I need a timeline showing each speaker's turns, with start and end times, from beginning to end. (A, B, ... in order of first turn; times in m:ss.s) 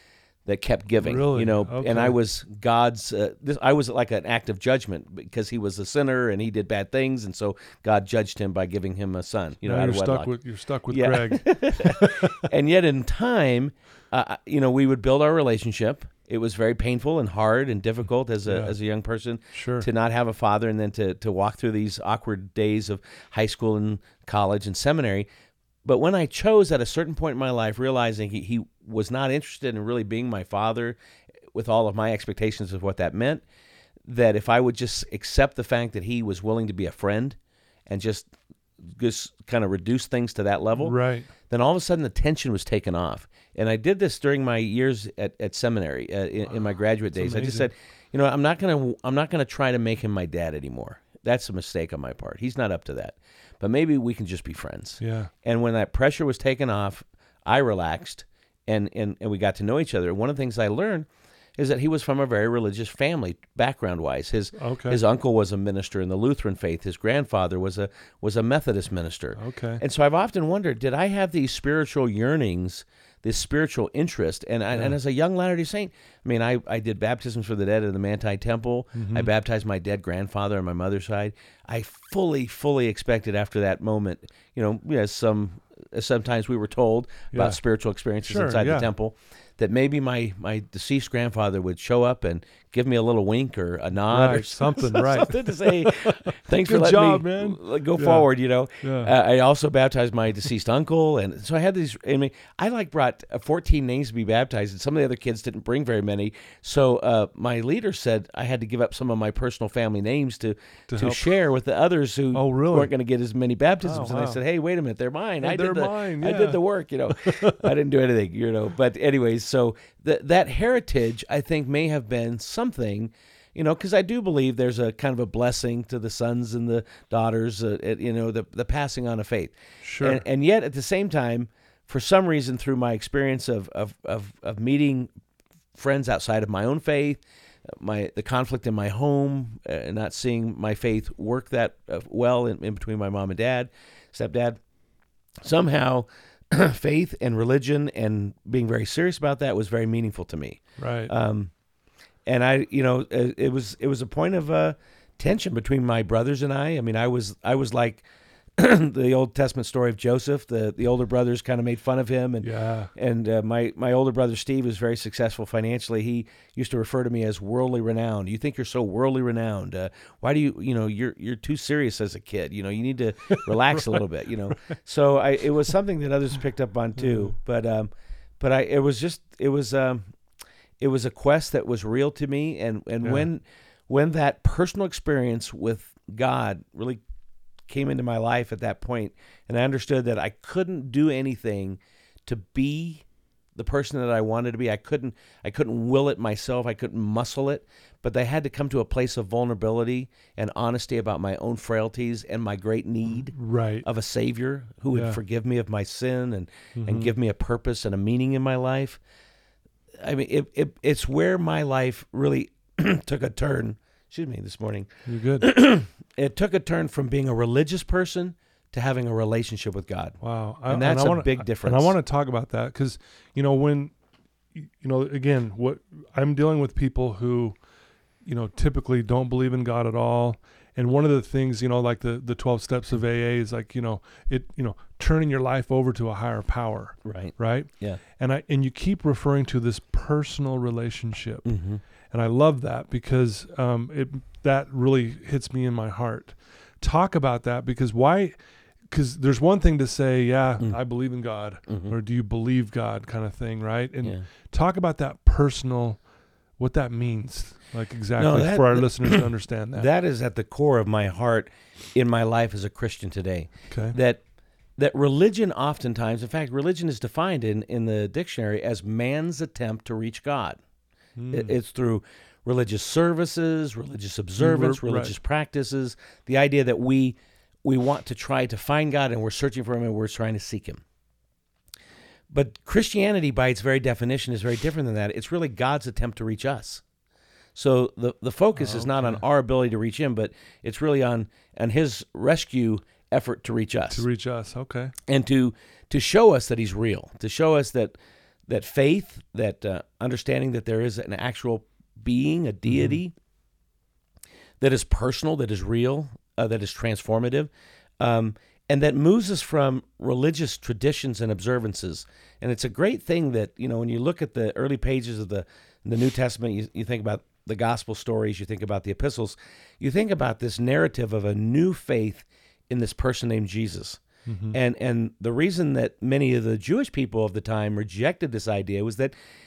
0:00.4-0:10.3 A
0:01.0-0:02.2 B
0:09.6-0:12.4 B
0:10.9-0:25.3 A
0:18.4-0:18.7 B
0:19.5-0:19.9 B
0:25.8-0:31.0 A
0:31.5-0:33.4 A
0:34.0-0:38.3 A
0:38.8-0:41.0 A
0:40.8-0:41.3 B
0:41.5-2:15.1 A
0:47.1-0:47.7 B
0:55.0-0:55.3 B
1:04.5-1:05.0 B
1:09.4-1:09.8 B
1:18.9-1:19.3 B
1:27.3-1:27.6 B
1:28.2-1:28.9 B
1:34.1-1:38.3 B
1:38.8-1:39.1 B
1:50.9-1:51.3 B
1:52.3-1:52.9 B
1:53.8-1:54.4 B
1:55.4-1:56.6 B
1:57.1-1:57.6 B
2:09.8-2:10.2 B
2:15.7-2:24.6 A
2:25.4-2:31.5 A
2:30.8-2:31.1 B
2:32.2-2:38.0 A
2:38.6-2:57.9 A
2:42.4-2:42.9 B
2:53.3-2:54.8 B
2:57.0-2:57.3 B
2:58.4-3:00.0 A
3:00.8-3:07.0 A
3:07.7-3:29.0 A
3:23.3-3:23.8 B
3:24.9-3:25.2 B
3:26.8-3:27.1 B
3:30.0-3:41.9 A
3:35.0-3:35.5 B
3:40.2-3:43.9 B
3:44.5-3:47.6 B
3:48.2-4:01.4 B
3:57.0-3:58.0 A
4:01.4-4:01.8 A
4:02.1-4:08.4 B
4:08.9-4:16.0 B
4:11.7-4:11.9 A
4:16.6-4:19.9 B
4:18.2-4:24.2 A
4:23.7-4:24.0 B
4:24.8-4:30.6 A
4:31.2-4:31.5 B
4:31.3-4:40.8 A
4:34.4-4:35.1 B
4:42.3-4:46.8 A
4:47.5-4:54.0 A
4:48.6-4:49.2 B
4:53.9-4:54.9 B
4:55.1-4:57.9 A
4:58.5-5:03.1 A
5:02.7-5:03.0 B
5:04.6-5:29.1 A
5:24.2-5:24.6 B